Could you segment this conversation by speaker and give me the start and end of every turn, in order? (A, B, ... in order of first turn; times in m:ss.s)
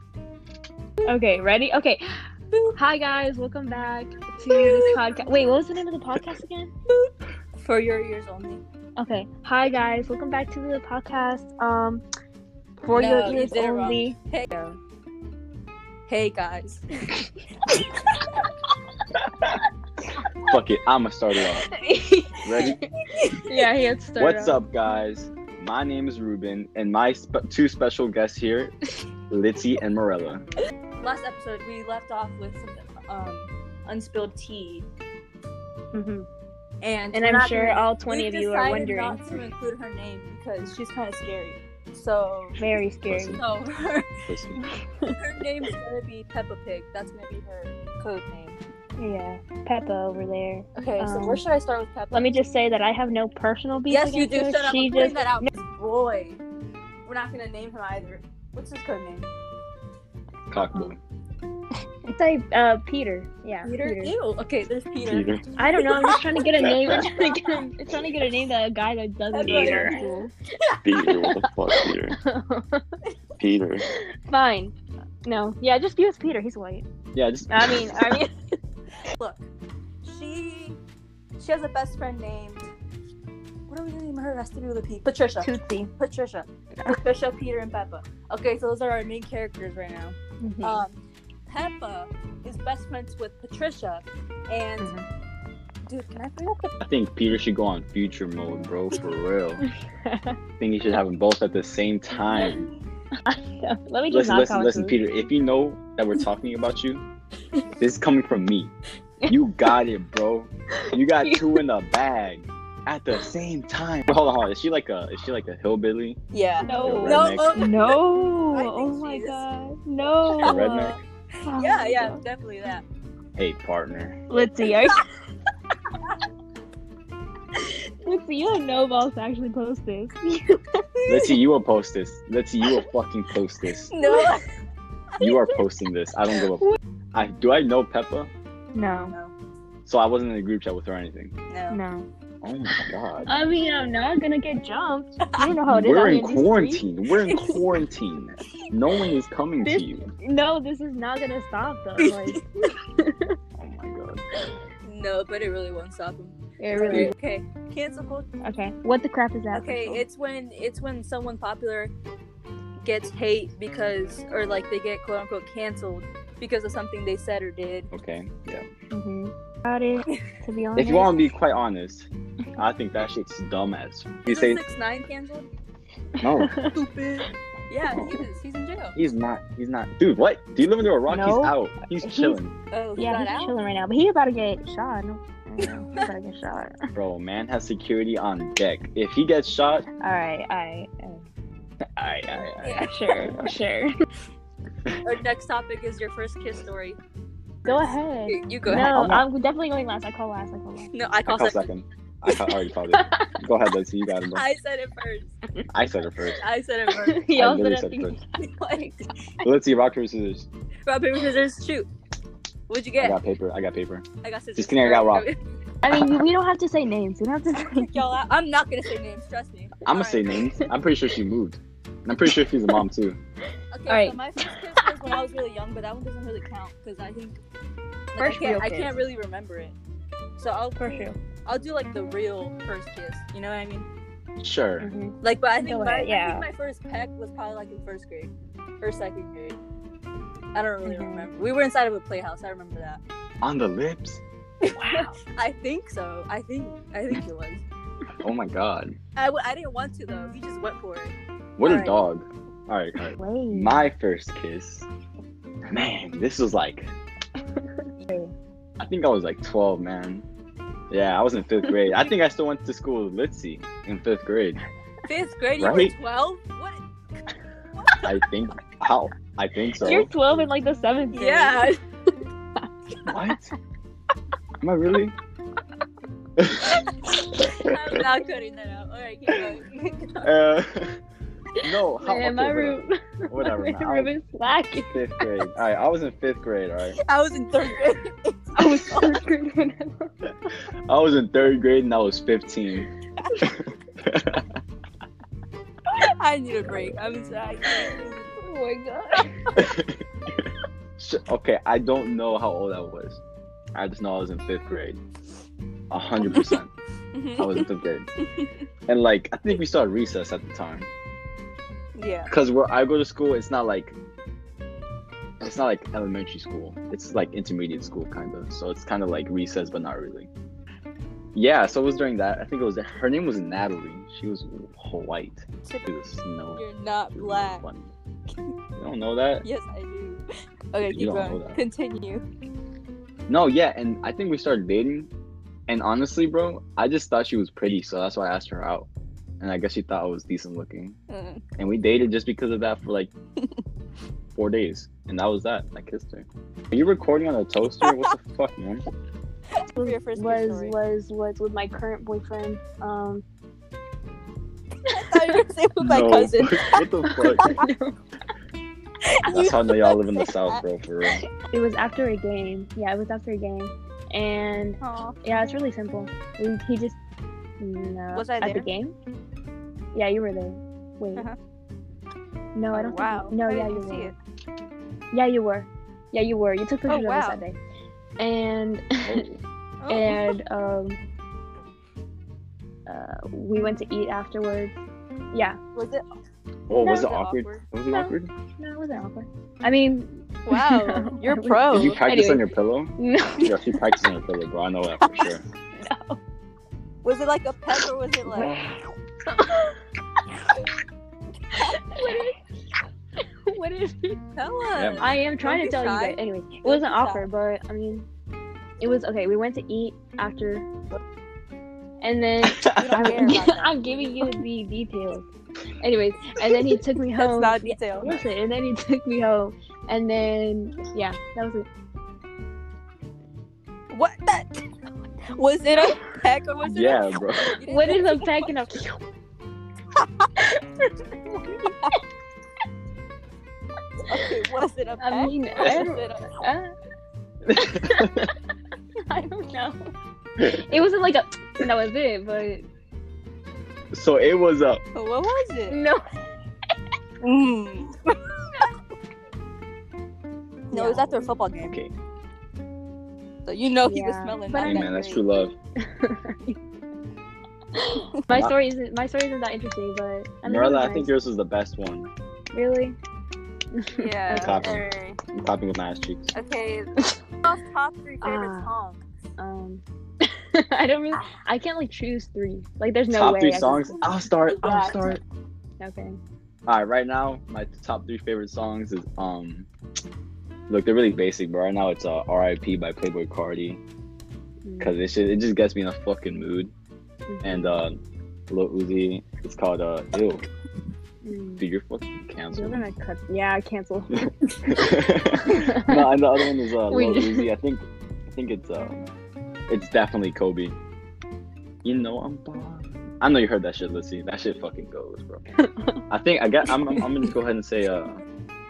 0:01.0-0:02.2 A
0:02.8-0:06.7 A
0:04.5-0:05.6 B
0:06.9-0:08.6 B
0:09.0-0:12.0 A
0:12.8-0:14.8 A
0:12.9-0:14.5 B
0:16.1-0:16.8 B
0:20.4-0:21.7 C
0:21.7-0:22.8 A
0:22.4-0:22.8 C
0:22.6-0:23.6 B
0:23.4-0:24.6 A
0:24.2-0:28.7 C
0:29.3-0:30.4 C
0:31.0-0:34.9 B
0:35.9-0:36.3 A
0:36.8-0:42.6 B
0:37.1-0:39.4 A
0:42.6-0:43.4 A
0:43.1-0:43.4 C
0:43.3-0:44.0 B
0:44.2-0:44.6 C
0:45.1-0:48.6 B
0:49.0-0:51.4 A
0:50.8-0:52.3 B
0:52.1-0:55.5 A
0:53.9-0:56.4 B
0:57.0-0:59.3 B
1:00.5-1:01.0 C
1:02.1-1:04.2 A
1:03.6-1:06.3 B
1:05.0-1:05.5 C
1:05.6-1:10.3 A
1:06.6-1:07.0 C
1:09.3-1:10.8 B
1:09.4-1:10.0 C
1:10.8-1:12.2 C
1:11.0-1:12.8 A
1:13.4-1:13.8 C
1:13.9-1:16.8 A
1:17.1-1:18.2 C
1:17.5-1:18.3 A
1:19.1-1:19.5 B
1:20.0-1:20.8 B
1:21.4-1:22.7 B
1:23.7-1:34.9 B
1:25.4-1:25.9 A
1:30.4-1:30.8 A
1:34.8-1:35.0 A
1:35.9-1:36.7 B
1:36.8-1:39.6 C
1:39.6-1:40.4 A
1:40.6-1:42.7 C
1:42.3-1:42.6 A
1:43.2-1:45.0 A
1:44.1-1:47.0 C
1:47.8-1:48.7 C
1:49.3-1:56.2 C
1:50.8-1:51.6 A
1:56.3-1:59.4 B
1:56.6-2:00.8 A
1:56.8-1:57.6 C
2:00.2-2:01.0 B
2:00.4-2:01.0 C
2:01.4-2:02.2 A
2:01.5-2:02.8 B
2:03.4-2:04.2 C
2:04.3-2:05.0 A
2:04.4-2:05.0 B
2:08.0-2:10.6 A
2:11.0-2:11.4 B
2:11.1-2:13.9 C
2:13.9-2:14.4 B
2:15.2-2:15.6 B
2:15.2-2:18.3 C
2:18.7-2:19.1 A
2:19.0-2:19.3 B
2:19.8-2:21.3 C
2:21.5-2:21.8 B
2:21.7-2:22.1 A
2:22.4-2:23.3 C
2:23.2-2:27.5 A
2:25.7-2:30.1 C
2:27.3-2:27.6 B
2:29.6-2:33.3 A
2:32.0-2:32.4 B
2:33.6-2:34.2 C
2:34.8-2:38.3 B
2:36.6-2:37.1 A
2:38.4-2:40.0 A
2:39.5-2:41.9 B
2:42.8-2:47.9 B
2:47.9-2:48.6 C
2:48.9-2:51.3 A
2:50.8-2:54.6 C
2:54.2-2:55.5 B
2:56.2-2:56.7 A
2:56.2-2:56.6 C
2:56.7-2:59.0 B
2:57.9-2:58.2 C
2:59.0-3:02.5 C
3:01.1-3:02.4 A
3:02.7-3:03.5 B
3:03.0-3:06.8 A
3:05.6-3:06.1 B
3:06.9-3:09.9 C
3:10.0-3:11.2 A
3:12.0-3:13.5 C
3:12.6-3:13.0 B
3:12.8-3:13.9 A
3:15.0-3:17.0 B
3:17.6-3:20.9 A
3:18.2-3:19.1 B
3:18.6-3:19.2 C
3:20.9-3:21.7 B
3:21.2-3:24.4 C
3:22.9-3:23.4 A
3:24.3-3:25.3 B
3:25.7-3:26.4 C
3:26.4-3:27.2 B
3:27.0-3:28.2 A
3:27.3-3:28.2 C
3:28.4-3:29.0 B
3:29.4-3:30.5 C
3:30.8-3:31.9 B
3:32.7-3:33.2 B
3:33.0-3:35.3 C
3:34.2-3:35.4 B
3:35.8-3:38.1 A
3:35.9-3:36.2 C
3:37.5-3:40.3 B
3:39.8-3:43.2 C
3:40.4-3:40.7 A
3:43.7-3:47.4 B
3:43.9-3:44.9 A
3:48.1-3:49.7 B
3:48.2-3:48.9 A
3:50.4-3:53.9 B
3:50.8-3:51.2 A
3:54.4-3:54.9 C
3:54.8-3:56.5 A
3:55.2-3:59.6 B
4:00.5-4:03.0 B
4:00.8-4:01.3 A
4:03.4-4:04.2 C
4:04.6-4:07.6 B
4:04.7-4:05.1 A
4:08.2-4:09.0 C
4:09.2-4:12.0 B
4:11.6-4:14.9 C
4:13.2-4:13.9 A
4:15.7-4:16.9 C
4:18.8-4:20.2 C
4:20.9-4:24.6 C
4:21.7-4:22.1 A
4:25.0-4:26.8 B
4:25.6-4:25.9 C
4:27.8-4:28.1 B
4:28.0-4:30.1 C
4:29.8-4:31.7 A
4:31.1-4:31.8 B
4:33.0-4:33.5 C
4:34.6-4:35.1 C
4:36.4-4:36.8 C
4:37.4-4:38.0 C
4:37.6-4:40.3 B
4:39.3-4:39.5 C
4:40.2-4:41.0 C
4:41.6-4:44.1 C
4:42.0-4:45.0 A
4:44.9-4:47.0 C
4:47.0-4:49.2 B
4:48.6-4:50.1 A
4:50.9-4:52.9 C
4:53.4-4:54.4 C
4:56.0-4:58.2 B
4:58.4-4:59.6 A
4:59.6-5:00.5 C
5:01.0-5:03.2 C
5:03.7-5:05.0 C
5:05.9-5:06.7 C
5:06.2-5:06.6 B
5:07.1-5:07.7 B
5:07.4-5:08.1 C
5:08.2-5:08.5 B
5:08.9-5:10.9 C
5:12.0-5:12.3 B
5:12.3-5:14.0 C
5:15.4-5:20.3 C
5:21.3-5:27.9 C
5:26.5-5:27.6 B
5:28.8-5:29.4 C
5:29.4-5:32.2 B
5:30.9-5:31.6 C
5:33.3-5:35.1 C
5:35.7-5:38.9 C
5:39.4-5:41.0 C
5:41.1-5:41.4 B
5:41.6-5:43.1 C
5:44.3-5:48.8 C
5:47.8-5:48.1 B
5:49.7-5:50.8 B
5:49.8-5:53.2 A
5:54.9-5:57.6 B
5:55.8-5:57.6 C
5:57.0-5:58.0 A
5:59.2-6:00.6 B
5:59.3-6:01.2 C
6:01.5-6:07.0 A
6:04.8-6:05.2 B
6:07.6-6:08.9 A
6:08.1-6:08.7 B
6:09.9-6:11.3 A
6:12.5-6:14.1 A
6:12.7-6:14.2 B
6:15.1-6:17.6 A
6:16.9-6:17.4 B
6:18.2-6:19.3 A
6:19.0-6:19.4 C
6:19.8-6:20.4 B
6:19.9-6:21.0 A
6:22.9-6:24.8 A
6:25.3-6:25.6 A
6:25.7-6:26.0 B
6:26.7-6:28.3 C
6:26.8-6:27.6 B
6:27.9-6:34.0 A
6:30.4-6:32.0 B
6:31.7-6:35.4 C
6:35.0-6:35.3 B
6:35.7-6:36.2 A
6:37.0-6:38.5 B
6:38.3-6:38.8 A
6:38.3-6:38.8 C
6:41.6-6:42.4 A
6:43.5-6:44.2 A
6:44.3-6:47.3 B
6:44.7-6:45.1 C
6:45.0-6:48.1 A
6:48.8-6:50.7 A
6:52.0-6:55.3 A
6:52.5-6:53.4 C
6:52.8-6:54.3 B
6:55.8-7:01.6 A
6:57.2-6:58.2 B
6:58.0-6:58.3 C
7:03.9-7:04.6 B
7:05.3-7:08.6 B
7:06.6-7:07.5 C
7:07.5-7:09.0 A
7:10.0-7:10.3 B
7:11.2-7:12.0 B
7:14.1-7:16.4 B
7:15.0-7:16.7 A
7:15.6-7:16.0 C
7:17.5-7:18.3 C
7:17.6-7:18.2 A
7:19.1-7:19.8 A
7:20.4-7:22.7 A
7:23.9-7:24.8 C
7:24.9-7:25.8 B
7:25.7-7:26.0 A
7:27.2-7:28.1 B
7:30.7-7:31.8 B
7:30.7-7:31.3 A
7:31.6-7:31.9 C
7:33.4-7:35.5 B
7:33.8-7:34.9 A
7:34.6-7:35.5 C
7:35.8-7:36.6 A
7:37.8-7:41.2 A
7:40.4-7:42.1 C
7:42.5-7:43.0 A
7:43.7-7:44.7 A
7:43.9-7:45.2 B
7:44.3-7:46.3 C
7:46.3-7:49.0 B
7:48.2-7:48.7 A
7:49.4-7:55.2 A
7:53.1-7:55.2 C
7:54.7-7:54.9 B
7:55.8-7:56.2 A
7:56.7-7:59.7 C
8:00.7-8:03.8 C
8:04.6-8:04.9 A
8:04.8-8:06.7 C
8:07.3-8:07.8 A
8:07.4-8:08.0 C
8:08.5-8:10.4 C
8:11.2-8:11.6 A
8:11.6-8:12.8 C
8:12.5-8:16.1 A
8:14.2-8:19.0 C
8:16.9-8:17.5 A
8:19.7-8:20.8 C
8:21.8-8:25.4 C
8:25.6-8:26.0 A
8:26.1-8:28.2 C
8:26.6-8:27.3 A